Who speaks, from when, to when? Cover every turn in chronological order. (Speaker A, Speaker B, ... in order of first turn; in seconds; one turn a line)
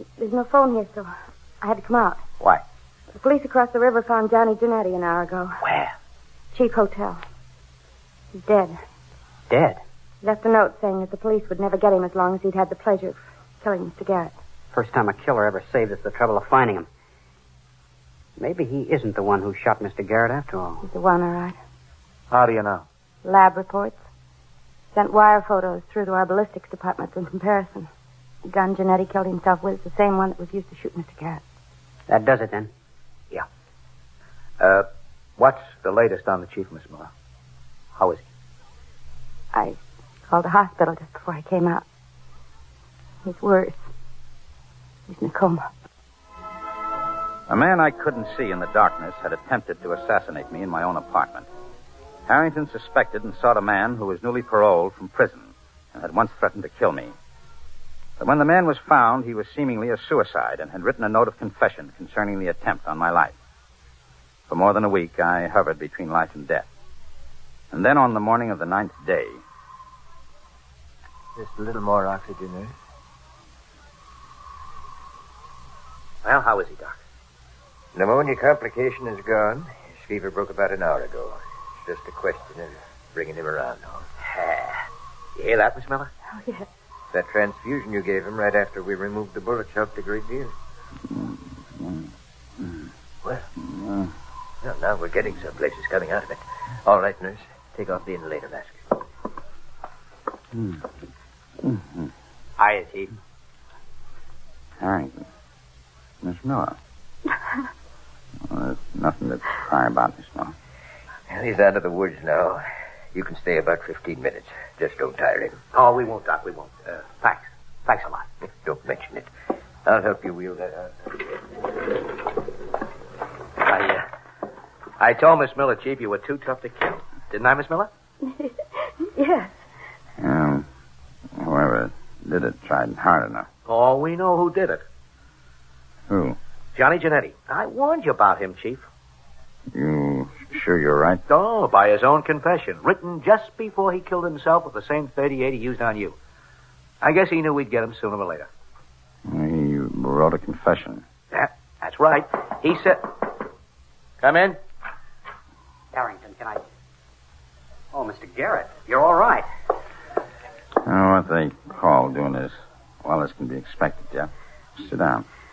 Speaker A: 0.2-2.2
Speaker A: 3.1-5.6
Speaker B: 5.6-5.9
Speaker A: 6.5-7.2
Speaker A: 8.3-8.8
Speaker C: 9.5-9.8
Speaker A: 10.2-14.3
Speaker C: 14.7-16.9
Speaker C: 18.4-20.8
Speaker A: 20.8-21.6
Speaker B: 22.3-22.8
Speaker A: 23.2-24.0
Speaker A: 24.9-27.9
Speaker A: 28.5-31.4
Speaker C: 32.1-32.7
Speaker B: 34.6-34.9
Speaker B: 35.4-37.1
Speaker B: 38.0-38.2
Speaker A: 39.5-41.8
Speaker A: 43.2-43.9
Speaker A: 45.1-45.6
Speaker D: 47.5-51.5
Speaker D: 52.3-57.1
Speaker D: 58.2-63.3
Speaker D: 64.5-66.7
Speaker D: 67.7-69.4
Speaker E: 71.3-72.7
Speaker B: 76.2-77.0
Speaker E: 77.9-84.0
Speaker B: 84.2-84.8
Speaker B: 85.3-86.1
Speaker A: 86.3-86.7
Speaker E: 87.1-90.5
Speaker D: 91.1-92.1
Speaker D: 92.6-92.8
Speaker D: 93.6-94.1
Speaker E: 94.6-99.0
Speaker D: 100.5-100.8
Speaker D: 101.6-102.1
Speaker B: 102.6-103.1
Speaker D: 104.8-105.2
Speaker D: 106.2-106.8
Speaker D: 108.5-110.5
Speaker E: 111.3-112.6
Speaker E: 113.1-115.6
Speaker B: 115.7-118.2
Speaker E: 118.6-119.2
Speaker E: 119.8-121.1
Speaker B: 123.6-124.0
Speaker B: 125.0-127.9
Speaker A: 128.2-129.5
Speaker D: 130.2-130.6
Speaker D: 131.3-133.5
Speaker B: 133.7-134.8
Speaker D: 136.1-136.4
Speaker B: 136.8-138.8
Speaker D: 139.7-141.2
Speaker B: 141.3-146.2
Speaker B: 147.0-148.5
Speaker D: 149.2-151.0
Speaker B: 151.3-153.3
Speaker B: 154.2-154.6
Speaker C: 155.9-156.6
Speaker C: 157.9-159.5
Speaker D: 160.8-165.2